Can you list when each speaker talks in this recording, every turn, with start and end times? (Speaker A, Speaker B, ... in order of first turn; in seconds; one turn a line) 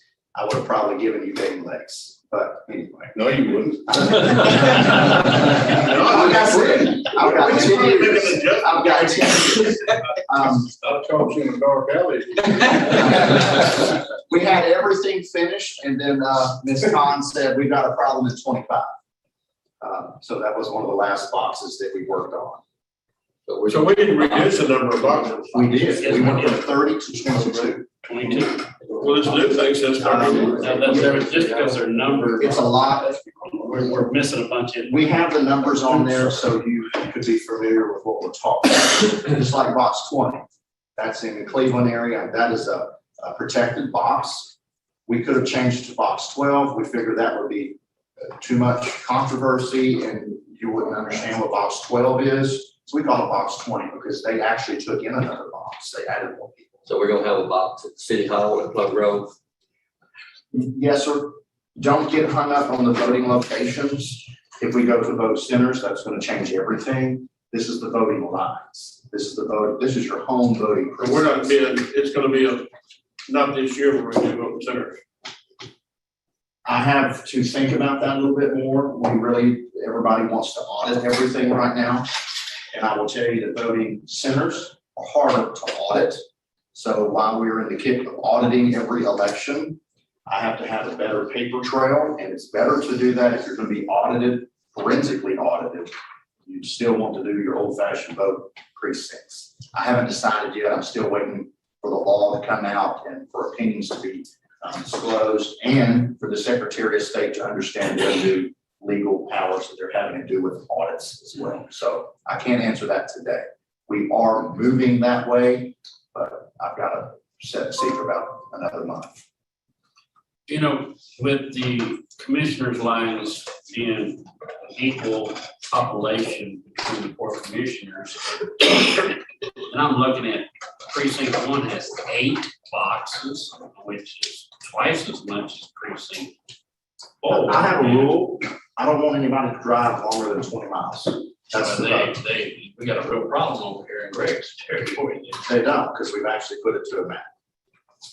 Speaker A: 0.3-3.1
Speaker B: 3.1-4.1
Speaker A: 3.9-10.7
Speaker B: 5.8-7.7
Speaker C: 6.4-9.7
Speaker B: 10.8-13.3
Speaker A: 12.9-18.9
Speaker A: 19.8-22.6
Speaker D: 23.5-24.6
Speaker C: 23.7-26.4
Speaker A: 25.5-27.9
Speaker E: 25.9-26.6
Speaker E: 28.0-29.0
Speaker C: 29.0-30.8
Speaker A: 30.0-31.6
Speaker E: 30.2-35.1
Speaker A: 32.4-33.2
Speaker A: 34.9-40.4
Speaker A: 41.0-44.5
Speaker A: 45.1-47.8
Speaker A: 48.4-56.8
Speaker D: 56.9-59.3
Speaker A: 60.5-71.5
Speaker C: 71.0-72.7
Speaker C: 73.3-75.0
Speaker A: 76.6-82.1
Speaker A: 82.7-86.2
Speaker A: 86.7-95.9
Speaker A: 96.4-119.2
Speaker E: 120.5-129.1
Speaker E: 129.7-136.3
Speaker E: 137.2-138.2
Speaker A: 137.3-142.2
Speaker E: 141.5-145.4
Speaker A: 145.4-147.2